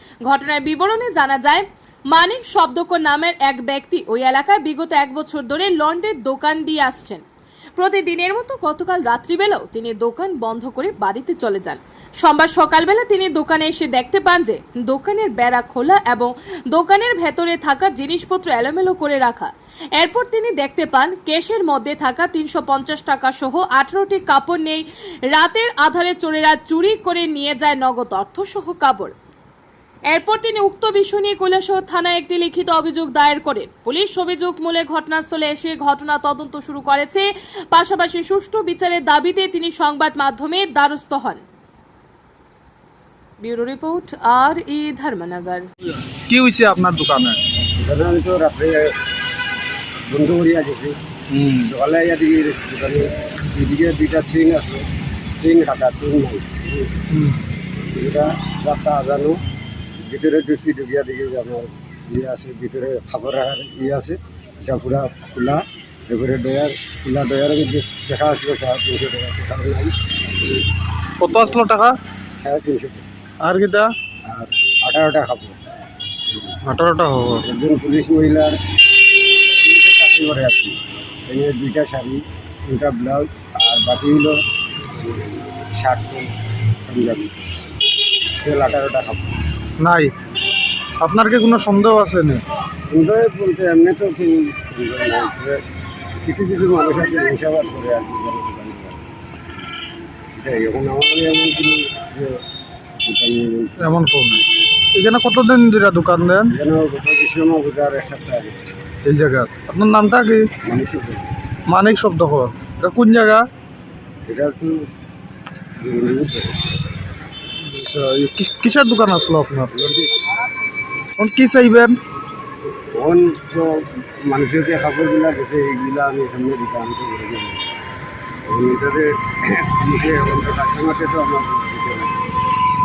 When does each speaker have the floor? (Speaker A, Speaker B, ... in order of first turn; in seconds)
Speaker A: 0.3-7.2, 7.8-29.1, 30.1-41.4, 43.4-45.7
Speaker B: 46.3-47.4, 51.3-51.7, 57.1-57.4, 71.2-72.0, 73.4-73.9, 76.6-77.5, 89.8-90.1, 91.0-92.4, 103.8-104.4, 105.0-106.5, 109.0-110.5, 111.7-113.4, 117.6-119.7, 121.2-122.0
Speaker C: 47.8-48.9, 50.1-51.0, 51.6-54.9, 55.4-56.9, 57.9-59.4, 60.0-69.9, 72.4-73.1, 74.3-75.6, 77.4-78.6, 79.4-84.4, 85.0-87.5, 88.4-89.3, 92.9-95.6, 96.2-99.1, 100.4-102.4, 103.0-103.9, 106.5-108.7, 110.6-111.3, 114.3-114.9, 115.8-116.6, 119.7-120.1, 123.0-123.7, 124.3-127.6, 128.4-132.3